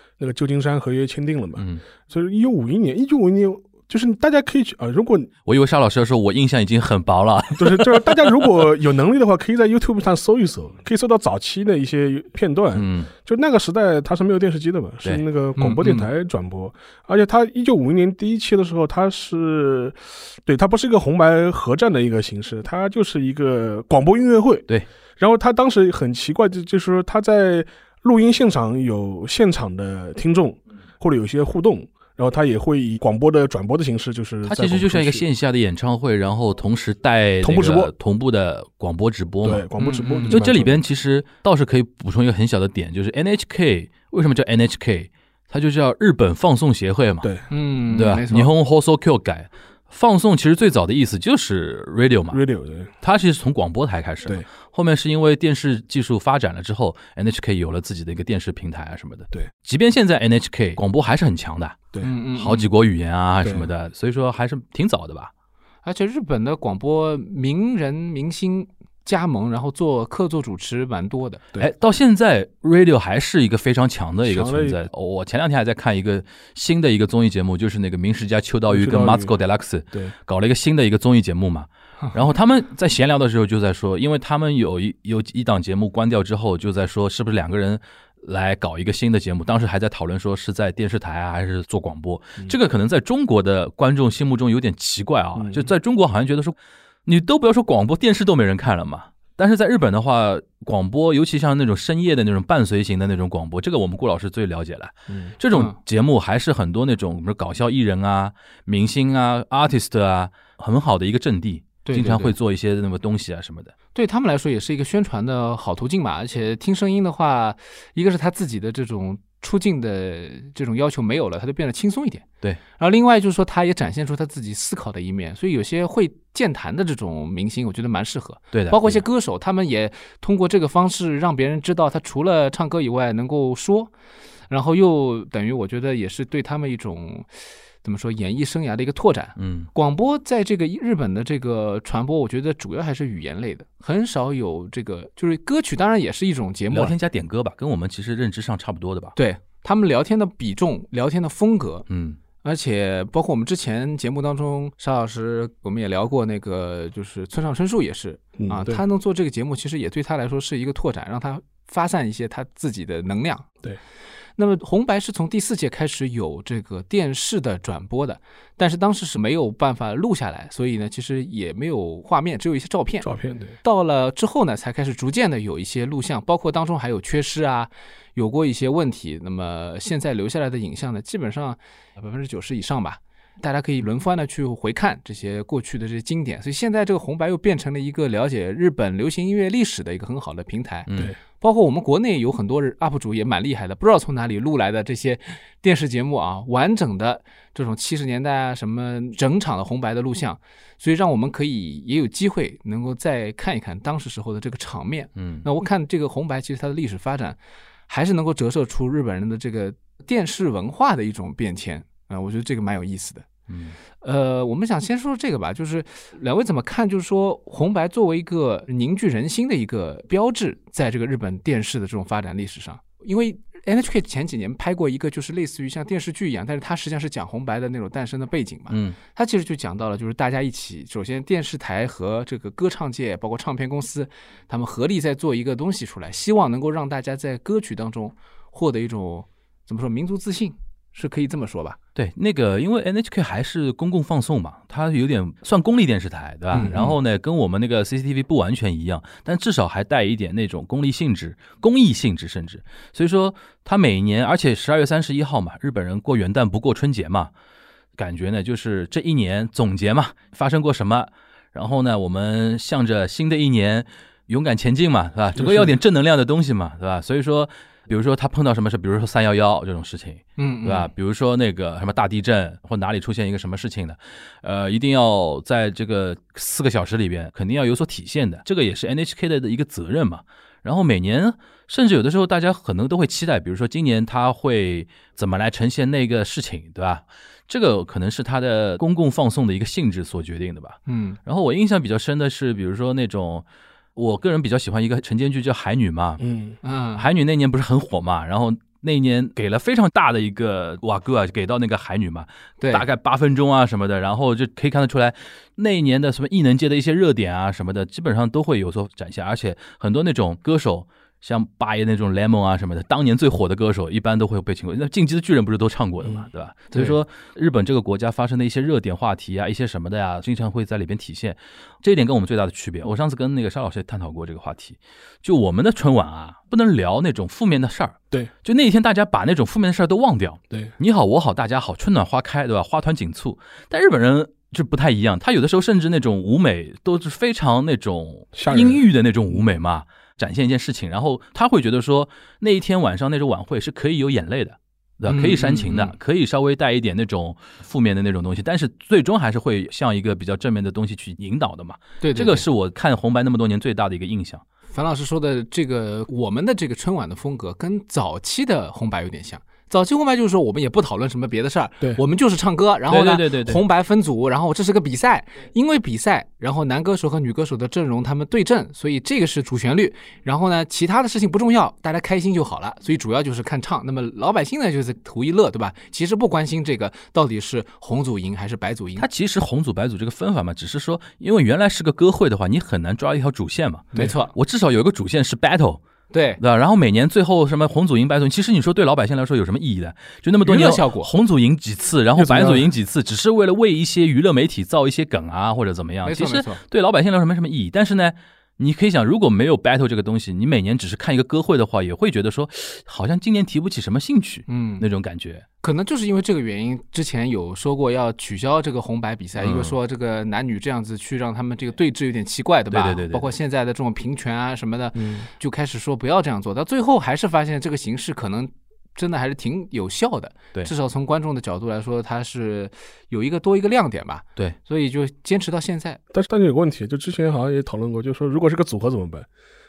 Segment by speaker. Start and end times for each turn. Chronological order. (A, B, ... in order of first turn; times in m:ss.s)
0:00.2-0:05.3 A
0:01.6-0:01.8 B
0:05.5-0:08.5 B
0:07.6-0:24.7 A
0:12.7-0:13.1 B
0:15.6-0:16.0 C
0:25.2-0:35.2 A
0:34.4-0:39.7 B
0:37.4-0:37.9 A
0:39.4-0:40.8 A
0:39.8-0:40.4 C
0:40.3-0:47.3 B
0:47.5-0:48.5 C
0:47.9-0:52.4 B
0:52.3-0:52.9 A
0:53.0-1:01.8 B
1:02.0-1:02.7 C
1:02.4-1:05.3 B
1:03.4-1:03.7 A
1:05.8-1:11.4 C
1:11.6-1:36.6 B
1:14.3-1:14.8 A
1:18.7-1:19.3 A
1:35.4-1:35.7 A
1:37.1-1:53.7 B
1:45.1-1:45.3 A
1:51.8-1:52.3 C
1:54.0-2:02.2 C
2:02.8-2:13.9 C
2:08.5-2:09.0 B
2:14.5-2:17.3 C
2:17.8-2:26.9 C
2:19.4-2:19.7 B
2:26.7-2:29.2 B
2:29.2-2:31.9 C
2:31.9-2:32.2 B
2:32.4-2:43.5 C
2:38.4-2:38.8 A
2:44.4-2:53.1 C
2:53.0-2:53.6 A
2:53.6-3:10.9 C
3:10.9-3:11.1 B
3:11.4-3:27.4 C
3:25.2-3:25.4 B
3:27.9-3:33.3 C
3:33.5-3:33.8 B
3:34.0-4:01.8 C
3:48.7-3:49.0 B
4:02.0-4:17.3 B
4:06.5-4:07.0 C
4:18.0-4:53.4 B
4:25.4-4:25.7 A
4:30.4-4:30.9 C
4:50.9-4:51.2 C
4:54.0-4:56.2 B
4:56.2-4:56.6 A
4:56.6-4:57.1 C
4:57.0-5:54.4 B
5:02.6-5:02.8 C
5:16.7-5:17.0 C
5:38.4-5:38.8 A
5:45.1-5:45.9 C
5:52.0-5:52.4 C
5:54.7-6:19.1 C
6:02.9-6:03.6 B
6:19.0-6:25.8 B
6:23.9-6:24.3 C
6:26.1-6:26.4 C
6:26.4-6:45.4 B
6:30.4-6:31.1 C
6:32.2-6:32.7 A
6:36.0-6:36.6 C
6:44.5-6:44.9 C
6:45.6-7:06.0 C
6:49.4-6:49.8 B
6:52.7-6:53.3 B
6:55.0-6:55.3 A
7:06.1-7:09.3 A